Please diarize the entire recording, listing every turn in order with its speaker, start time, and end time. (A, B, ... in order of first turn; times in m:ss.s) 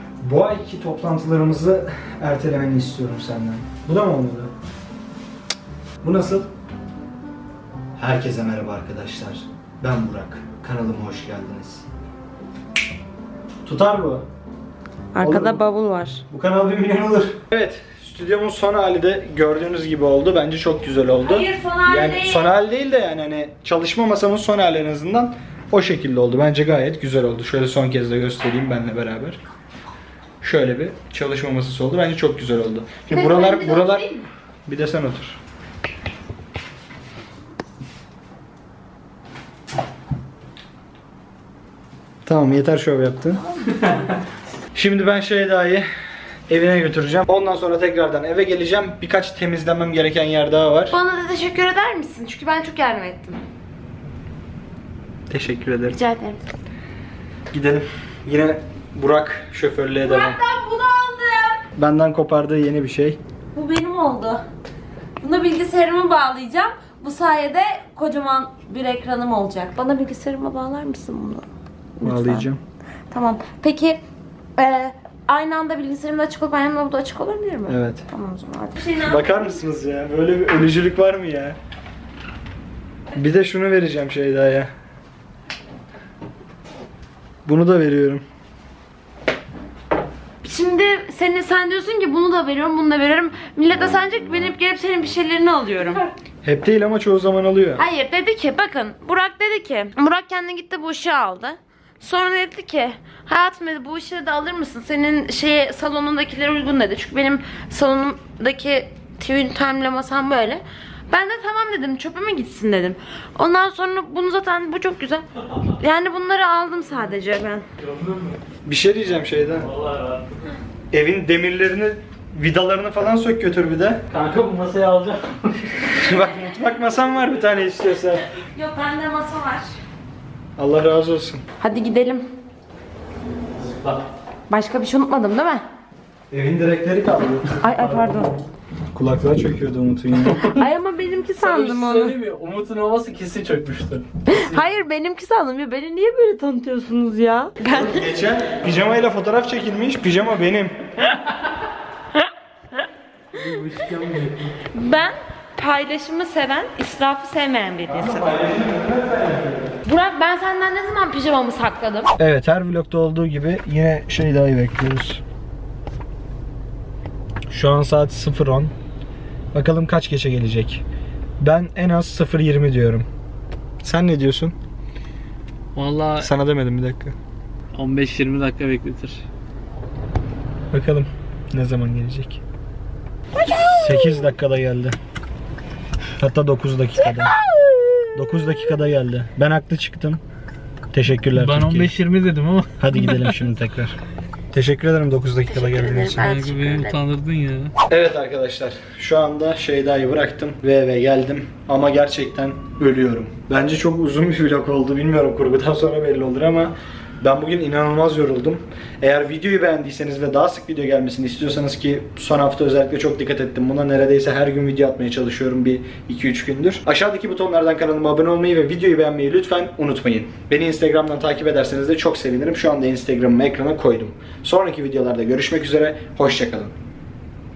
0:00.2-0:04.5 A
0:06.0-0:06.5 A
0:08.0-0:11.8 A
0:13.6-0:14.2 A
0:15.2-0:16.2 B
0:15.2-0:15.6 A
0:16.3-0:29.4 A
0:21.2-0:22.5 B
0:30.4-0:34.1 A
0:33.1-0:34.3 B
0:34.7-0:35.4 A
0:42.2-0:43.4 A
0:44.8-0:45.9 A
0:46.5-0:51.0 A
0:50.9-0:53.4 B
0:55.3-0:56.0 A
0:55.9-0:56.4 B
0:57.5-1:00.4 A
1:00.0-1:01.6 B
1:01.8-1:03.2 A
1:03.5-1:04.4 B
1:05.2-1:11.5 B
1:12.0-1:12.5 B
1:12.0-1:12.6 A
1:13.1-1:14.0 B
1:14.6-1:19.6 B
1:17.7-1:18.0 A
1:19.1-1:21.6 A
1:23.2-1:24.7 A
1:27.5-1:28.2 A
1:30.4-1:36.1 B
1:36.4-1:37.8 A
1:37.8-1:55.2 B
1:55.8-1:57.6 B
1:57.8-1:58.4 C
1:58.6-1:59.7 A
1:59.6-2:00.6 C
2:00.9-2:04.0 A
2:04.1-2:06.0 C
2:06.0-2:08.2 A
2:06.1-2:06.6 B
2:08.3-2:09.6 B
2:10.6-2:11.4 A
2:11.6-2:12.2 B
2:13.6-2:14.0 C
2:14.5-2:15.6 B
2:16.3-2:18.2 A
2:17.6-2:18.3 B
2:18.9-2:20.5 A
2:20.6-2:22.2 B
2:21.4-2:24.7 C
2:24.2-2:28.1 B
2:27.7-2:30.7 A
2:32.1-2:32.8 B
2:33.3-2:34.5 C
2:34.7-2:38.4 B
2:37.9-2:39.8 A
2:39.8-2:42.1 B
2:42.2-2:45.2 A
2:47.5-2:48.7 A
2:49.5-2:50.8 A
2:51.4-2:53.1 A
2:53.8-2:54.6 A
2:55.8-2:56.3 C
2:56.2-2:57.2 A
2:57.7-2:59.2 C
3:00.7-3:02.4 A
3:03.7-3:05.0 A
3:06.2-3:07.3 A
3:08.2-3:10.2 A
3:10.9-3:11.9 A
3:11.3-3:13.4 C
3:12.8-3:14.0 A
3:14.5-3:16.3 A
3:15.5-3:17.0 B
3:16.1-3:17.7 C
3:17.9-3:46.7 A